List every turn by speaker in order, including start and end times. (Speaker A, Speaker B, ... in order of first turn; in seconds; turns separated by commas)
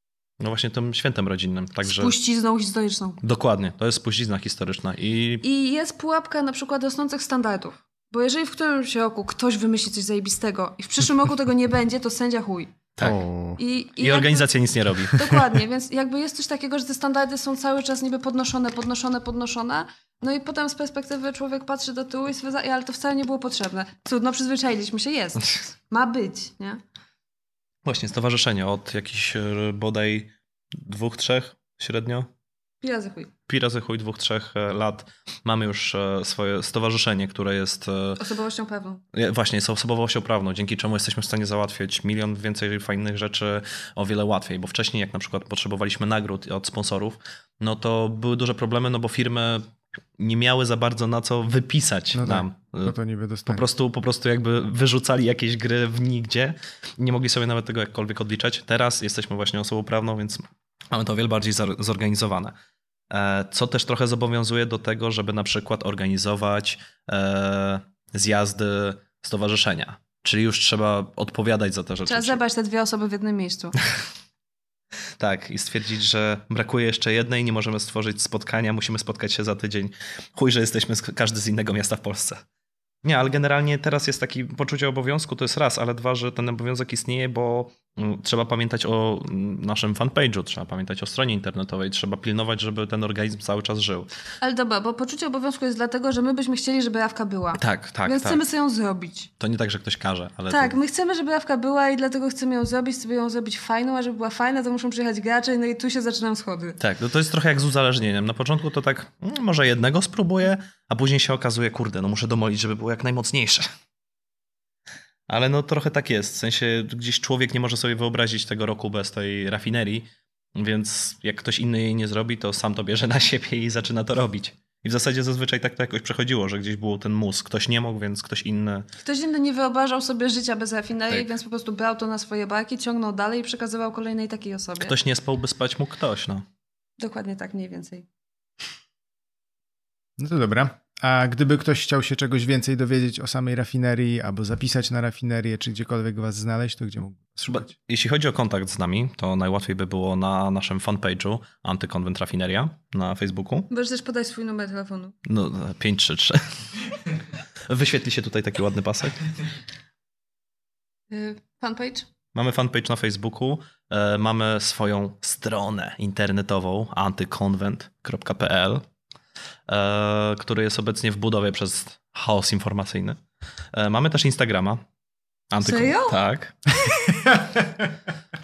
Speaker A: 0.4-2.1, Speaker B: 1.8-3.2, Speaker A: 3.2-5.4, Speaker B: 5.4-12.8, Speaker C: 13.0-13.6, Speaker B: 13.6-14.4, Speaker A: 14.0-15.4, Speaker B: 15.1-26.8, Speaker A: 27.8-32.3, Speaker B: 32.8-33.3, Speaker A: 33.5-38.2, Speaker B: 38.2-39.0, Speaker A: 39.1-52.9, Speaker C: 52.1-53.6, Speaker A: 53.5-62.5, Speaker A: 63.1-72.4, Speaker B: 72.1-73.8, Speaker A: 75.2-82.4, Speaker A: 83.0-94.1, Speaker B: 94.4-99.3, Speaker A: 97.6-98.4, Speaker A: 99.4-100.8, Speaker B: 100.5-106.8, Speaker A: 106.8-113.7, Speaker A: 115.3-128.9, Speaker B: 129.0-134.9, Speaker A: 134.8-136.4, Speaker B: 137.0-138.1, Speaker C: 140.2-147.7, Speaker A: 147.5-153.7, Speaker B: 153.7-155.1, Speaker A: 155.2-156.7, Speaker A: 157.7-159.3, Speaker B: 161.1-162.1, Speaker A: 162.3-168.8, Speaker A: 169.7-173.2, Speaker A: 173.7-174.8, Speaker A: 175.5-176.6, Speaker B: 175.6-176.2, Speaker C: 177.1-177.7